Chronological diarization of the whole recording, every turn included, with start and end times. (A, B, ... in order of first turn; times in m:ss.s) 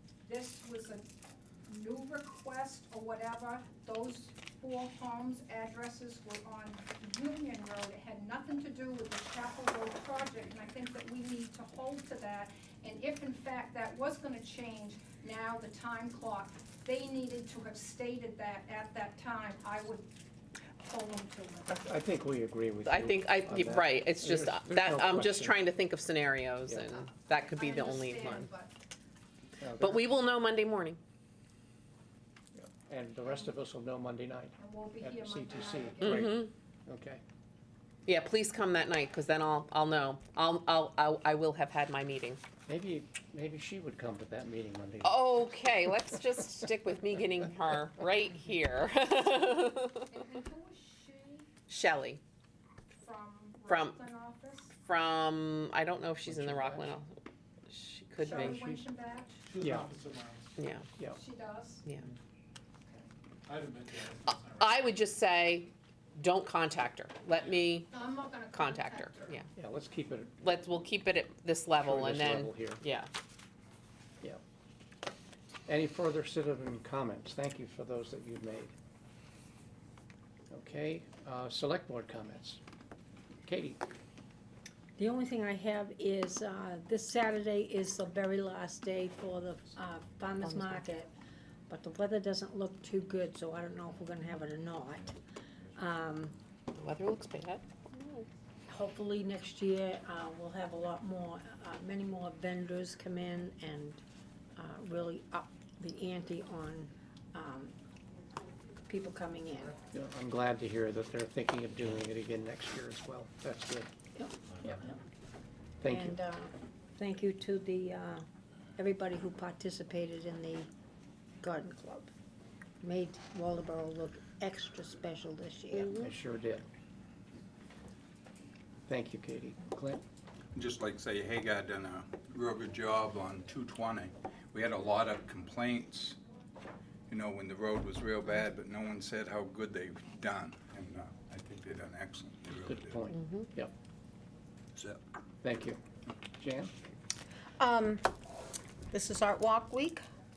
0:00.2-0:01.1 A
0:01.7-0:20.0 A
0:20.8-0:21.9 A
0:21.7-0:25.6 B
0:22.9-0:28.5 C
0:26.7-0:27.0 B
0:27.3-0:28.7 A
0:29.6-0:30.0 B
0:29.8-0:31.0 C
0:32.6-0:37.2 B
0:34.6-0:36.4 A
0:36.0-0:36.5 C
0:38.0-0:42.4 C
0:42.7-0:45.3 B
0:45.0-0:50.0 C
0:50.1-0:51.5 A
0:51.7-0:52.2 C
0:53.0-0:54.7 A
0:53.7-0:54.0 C
0:54.9-0:57.1 C
0:56.3-0:57.0 B
0:57.7-0:58.6 C
0:58.2-0:59.4 A
0:58.3-0:58.8 B
0:59.5-1:00.5 D
0:59.6-0:59.9 B
1:00.6-1:00.8 C
1:01.0-1:01.8 A
1:03.5-1:04.8 D
1:04.5-1:07.9 C
1:07.9-1:09.4 A
1:08.5-1:09.4 C
1:09.6-1:10.5 B
1:10.4-1:13.1 C
1:11.8-1:12.8 B
1:15.7-1:18.7 B
1:20.5-1:22.6 B
1:23.4-1:23.8 B
1:25.0-1:31.1 E
1:30.4-1:30.8 F
1:31.7-1:35.2 E
1:35.7-1:36.3 E
1:36.7-1:38.2 C
1:38.7-1:44.0 E
1:44.6-1:47.7 E
1:48.9-1:49.8 E
1:49.9-1:53.9 B
1:54.2-1:55.0 E
1:55.8-1:56.2 B
1:55.8-1:58.2 E
1:58.8-2:00.7 E
2:01.4-2:02.1 E
2:02.8-2:06.0 E
2:05.7-2:06.1 C
2:05.9-2:06.7 B
2:08.9-2:10.0 B
2:10.6-2:16.2 G
2:17.1-2:23.0 G
2:22.7-2:23.7 B
2:23.1-2:23.4 C
2:24.8-2:25.0 G
2:25.4-2:25.8 B
2:26.4-2:26.7 B
2:27.6-2:28.1 F
2:28.9-2:30.0 F